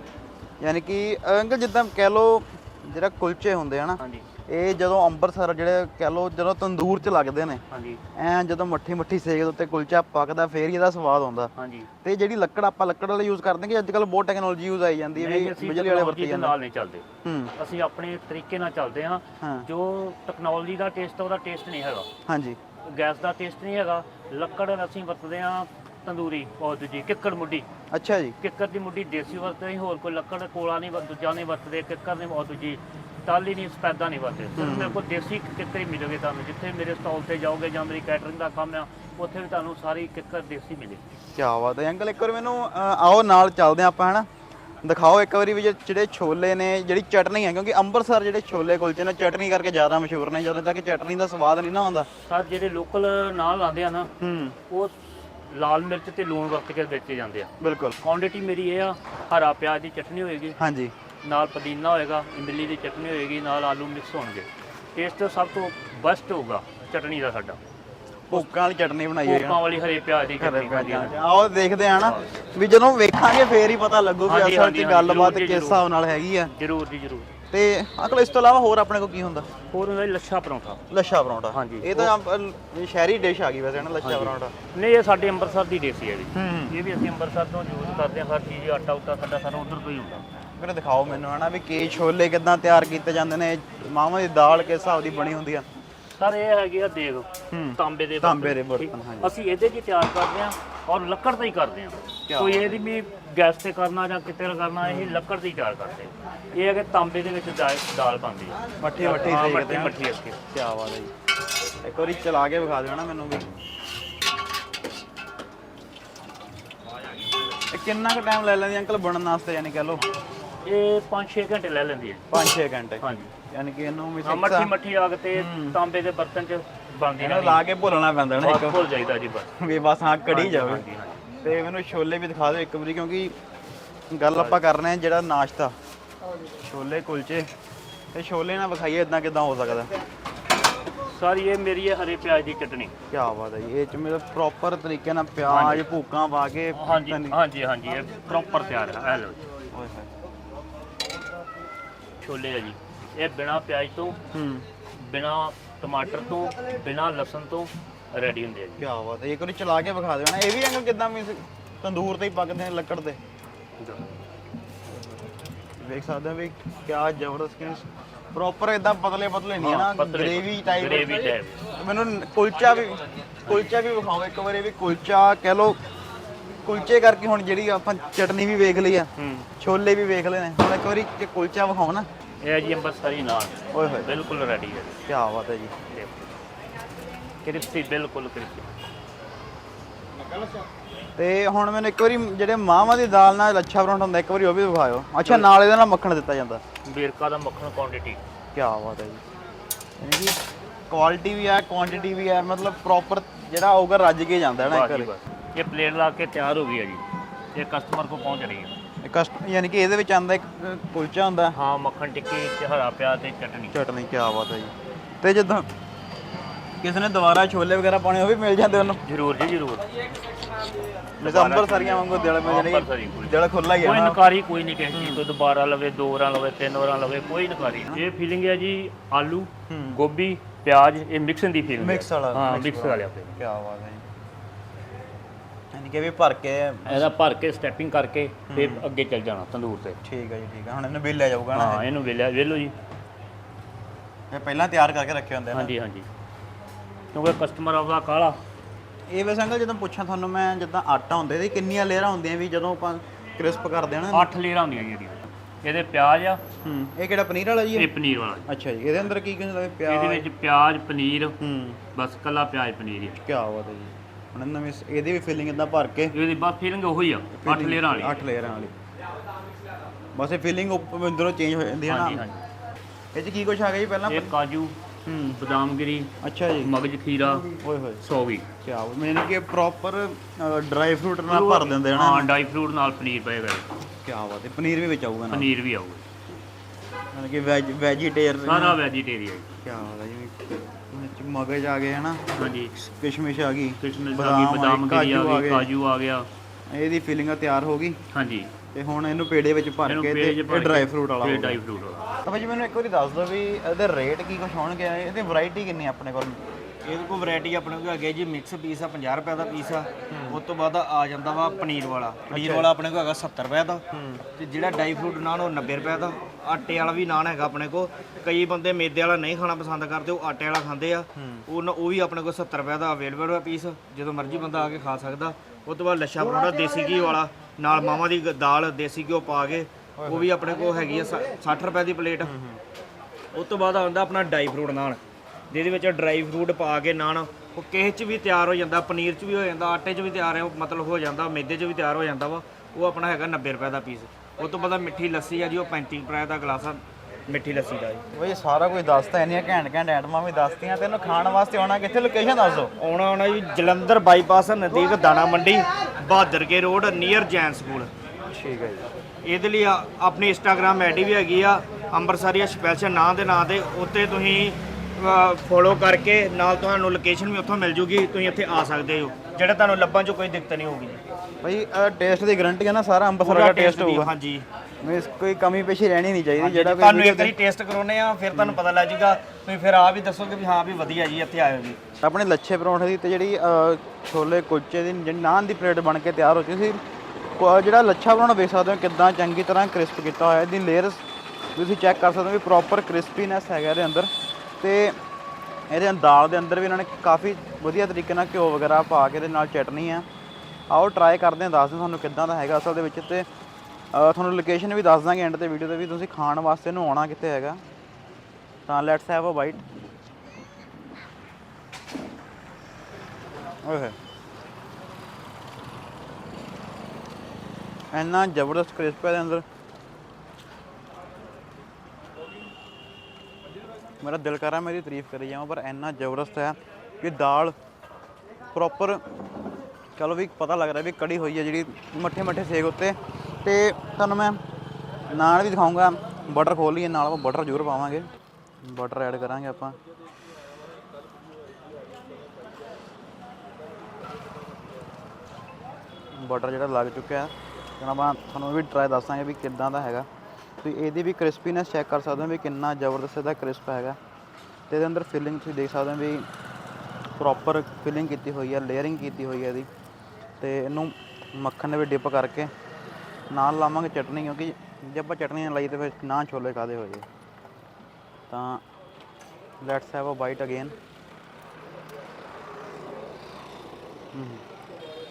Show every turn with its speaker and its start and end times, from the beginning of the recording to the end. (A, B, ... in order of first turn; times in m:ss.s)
0:00.6-0:07.6 A
0:04.0-0:04.2 B
0:07.7-0:08.0 B
0:08.1-0:11.5 A
0:11.6-0:11.9 B
0:12.0-0:16.6 A
0:15.2-0:17.0 B
0:17.2-0:17.5 A
0:17.6-0:22.1 B
0:19.4-0:19.6 A
0:22.3-0:22.6 A
0:22.8-0:27.7 B
0:27.9-0:28.4 A
0:28.4-0:41.1 B
0:34.6-0:35.0 A
0:41.3-0:44.3 A
0:44.8-0:52.1 A
0:52.2-0:54.1 B
0:54.2-0:54.6 A
0:54.7-0:55.0 B
0:55.5-1:00.6 B
0:57.6-0:58.0 A
1:00.6-1:00.9 A
1:01.2-1:07.6 B
1:08.3-1:09.6 A
1:09.2-1:11.2 B
1:10.4-1:16.5 A
1:14.2-1:15.8 B
1:16.5-1:17.3 B
1:17.5-1:19.5 A
1:19.7-1:20.8 B
1:20.9-1:24.5 A
1:21.5-1:22.1 B
1:24.0-1:30.2 B
1:26.3-1:26.7 A
1:30.6-1:35.6 A
1:36.1-1:50.4 B
1:37.5-1:39.3 A
1:42.3-1:42.8 A
1:44.8-1:45.2 A
1:48.8-1:50.0 A
1:50.5-1:51.1 A
1:51.8-1:53.5 A
1:57.7-2:00.0 A
2:00.6-2:02.2 B
2:02.3-2:04.7 A
2:03.0-2:03.3 B
2:04.2-2:07.6 B
2:05.3-2:05.8 A
2:07.2-2:08.9 A
2:08.4-2:09.5 B
2:09.6-2:13.3 A
2:10.3-2:11.2 B
2:14.1-2:15.7 A
2:14.3-2:14.6 B
2:16.6-2:17.5 A
2:18.1-2:19.9 A
2:21.0-2:22.9 B
2:23.1-2:27.4 A
2:25.5-2:25.8 B
2:26.7-2:29.4 B
2:29.7-2:30.1 A
2:32.2-2:34.2 B
2:34.3-2:34.6 A
2:34.9-2:38.8 B
2:38.8-2:43.2 A
2:43.8-2:44.0 B
2:44.9-2:45.3 A
2:45.8-2:55.8 A
2:49.6-2:51.6 B
2:56.6-3:02.1 A
2:59.2-2:59.5 B
3:02.4-3:05.0 B
3:03.7-3:04.2 A
3:05.1-3:05.7 A
3:05.8-3:06.3 B
3:07.4-3:08.7 B
3:11.2-3:16.6 A
3:16.8-3:18.2 B
3:18.5-3:19.2 A
3:20.0-3:20.4 A
3:20.9-3:25.1 A
3:24.7-3:28.8 B
3:29.0-3:31.5 A
3:31.5-3:33.8 B
3:33.7-3:35.7 A
3:36.8-3:39.0 A
3:39.0-3:39.9 B
3:41.2-3:53.4 B
3:41.2-3:44.2 A
3:44.9-3:45.2 A
3:49.7-3:50.0 A
3:51.8-3:54.0 A
3:55.7-3:57.1 A
3:56.8-4:00.0 B
3:58.5-3:58.8 A
4:00.0-4:01.8 A
4:01.5-4:02.7 B
4:04.3-4:05.7 A
4:05.5-4:06.1 B
4:07.1-4:08.4 B
4:09.1-4:14.3 A
4:14.1-4:16.4 B
4:16.6-4:17.9 A
4:17.7-4:18.5 B
4:18.5-4:20.3 A
4:19.8-4:21.4 B
4:21.4-4:21.8 A
4:21.9-4:23.2 B
4:23.2-4:26.1 A
4:26.1-4:28.2 B
4:27.4-4:28.7 A
4:30.1-4:32.2 A
4:31.8-4:32.4 B
4:33.1-4:34.3 A
4:34.1-4:34.8 B
4:35.0-4:35.4 A
4:35.3-4:37.5 B
4:36.2-4:36.7 A
4:37.4-4:38.0 A
4:38.0-4:38.5 B
4:38.6-4:42.3 A
4:41.3-4:43.7 B
4:44.0-4:45.5 A
4:45.3-4:46.0 B
4:47.1-4:48.8 A
4:48.4-4:49.6 B
4:49.6-4:52.2 A
4:52.3-4:52.8 B
4:52.8-4:55.7 A
4:53.8-4:56.3 B
4:56.7-4:58.0 A
4:58.1-4:58.5 B
4:58.7-5:01.6 A
4:59.8-5:02.1 B
5:02.2-5:06.4 A
5:06.8-5:13.8 C
5:10.1-5:10.4 A
5:12.3-5:12.7 A
5:13.9-5:14.2 A
5:14.4-5:32.3 C
5:21.2-5:21.4 A
5:30.0-5:30.3 A
5:32.2-5:32.6 A
5:33.3-5:35.0 C
5:35.5-5:48.0 C
5:48.1-5:52.7 A
5:52.8-5:57.9 C
5:58.3-5:58.9 A
5:59.2-6:11.0 C
6:11.4-6:14.1 A
6:13.2-6:14.4 C
6:14.8-6:17.3 A
6:16.4-6:21.8 C
6:18.3-6:18.6 A
6:22.0-6:26.8 A
6:27.4-6:31.0 A
6:31.5-6:35.0 A
6:35.7-6:40.0 A
6:40.7-6:43.3 A
6:43.9-6:47.6 A
6:48.7-6:49.6 A
6:53.6-6:53.9 A
6:57.9-6:59.4 A
7:04.0-7:07.5 A
7:08.5-7:09.0 A
7:10.0-7:14.4 A
7:15.1-7:18.1 A
7:18.6-7:19.8 A
7:26.1-7:30.1 A
7:30.6-7:34.0 A
7:34.7-7:36.3 A
7:37.2-7:39.7 A
7:40.4-7:42.5 A
7:43.3-7:47.0 A
7:48.3-7:48.6 A
7:49.6-7:50.7 A
7:54.1-7:54.4 A